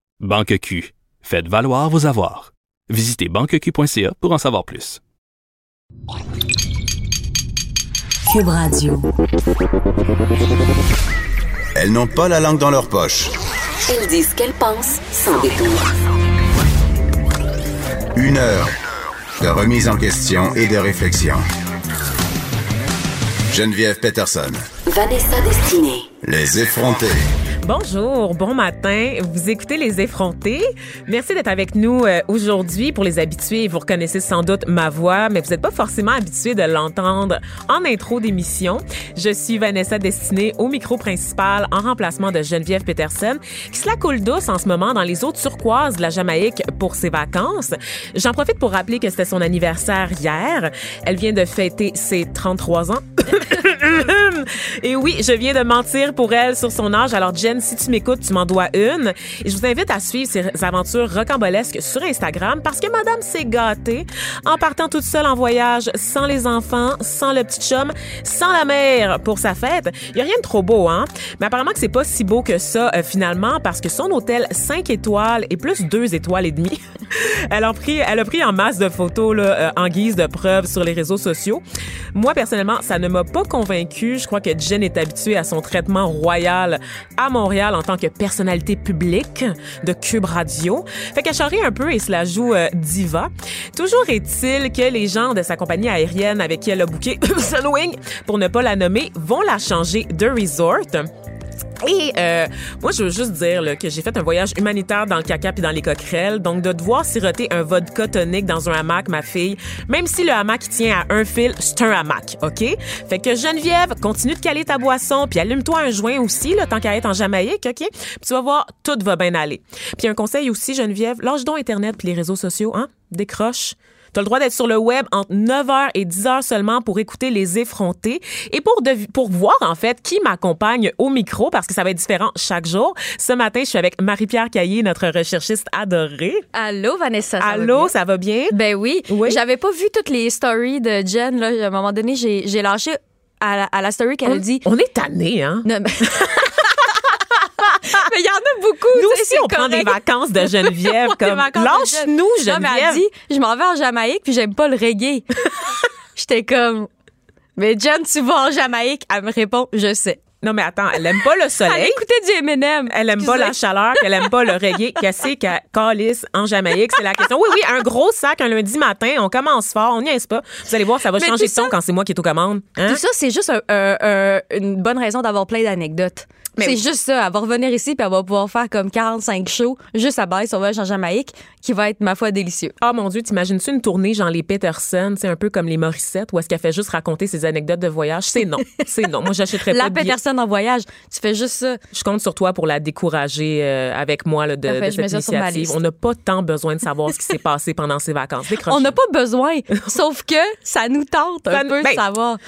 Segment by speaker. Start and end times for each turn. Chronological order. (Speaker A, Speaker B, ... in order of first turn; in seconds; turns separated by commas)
Speaker A: 0.2-5.0, Speaker B: 8.3-9.0, Speaker C: 11.8-13.3, Speaker D: 13.9-15.9, Speaker C: 18.2-18.7, Speaker C: 19.4-21.4, Speaker C: 23.5-24.6, Speaker D: 24.9-26.1, Speaker C: 26.2-27.2, Speaker E: 27.6-81.6, Speaker E: 82.1-101.1, Speaker E: 101.8-136.4, Speaker B: 136.5-137.9, Speaker E: 137.4-138.6, Speaker B: 138.5-144.6, Speaker E: 139.1-139.4, Speaker E: 144.3-146.7, Speaker B: 145.6-146.9, Speaker B: 147.7-155.3, Speaker E: 148.9-153.0, Speaker B: 156.2-156.9, Speaker B: 157.6-160.2, Speaker E: 160.4-162.0, Speaker B: 161.6-164.5, Speaker E: 162.9-173.0, Speaker B: 171.2-171.7, Speaker B: 172.8-182.8, Speaker E: 182.8-190.1, Speaker B: 189.7-191.8, Speaker E: 191.9-199.0, Speaker B: 194.7-195.8, Speaker B: 198.7-202.4, Speaker E: 201.5-202.0